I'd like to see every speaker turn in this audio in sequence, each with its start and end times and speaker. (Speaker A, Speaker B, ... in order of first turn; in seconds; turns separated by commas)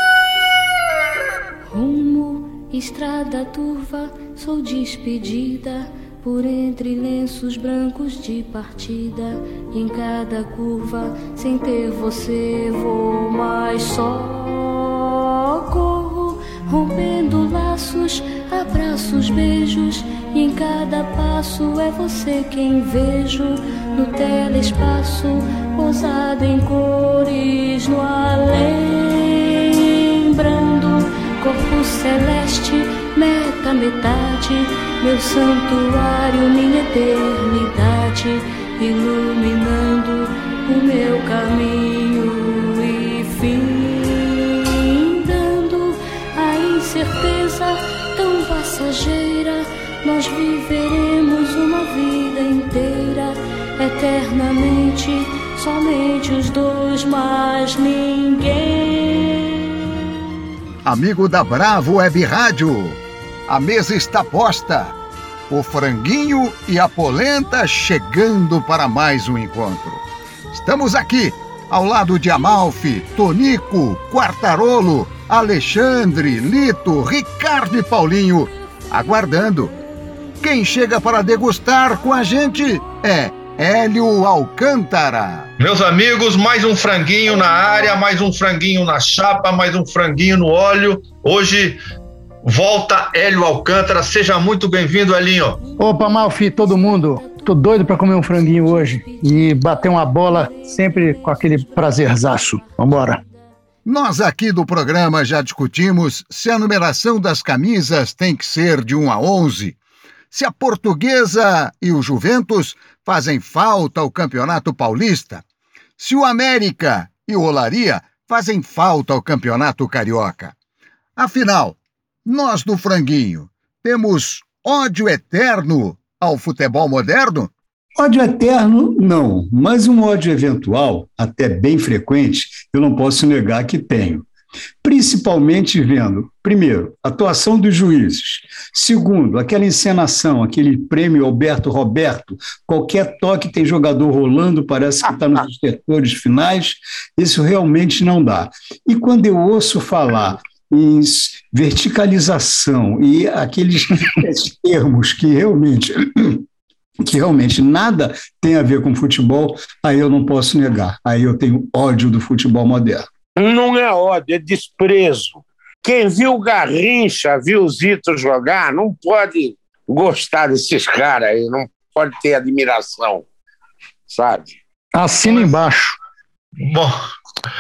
Speaker A: 1.7-59.5, Speaker B: 60.9-65.0, Speaker B: 65.5-79.7, Speaker A: 79.1-79.5, Speaker B: 80.4-85.5, Speaker A: 80.6-83.0, Speaker C: 85.6-91.8, Speaker A: 87.3-88.0, Speaker C: 92.4-95.6, Speaker A: 95.6-103.5, Speaker D: 95.8-103.2, Speaker B: 103.8-109.8, Speaker B: 110.3-115.4, Speaker B: 116.0-120.5, Speaker B: 121.2-127.5, Speaker E: 128.0-134.3, Speaker E: 134.8-156.4, Speaker E: 157.1-163.1, Speaker F: 163.4-173.2, Speaker F: 174.1-174.6, Speaker D: 174.9-176.0, Speaker C: 176.6-177.0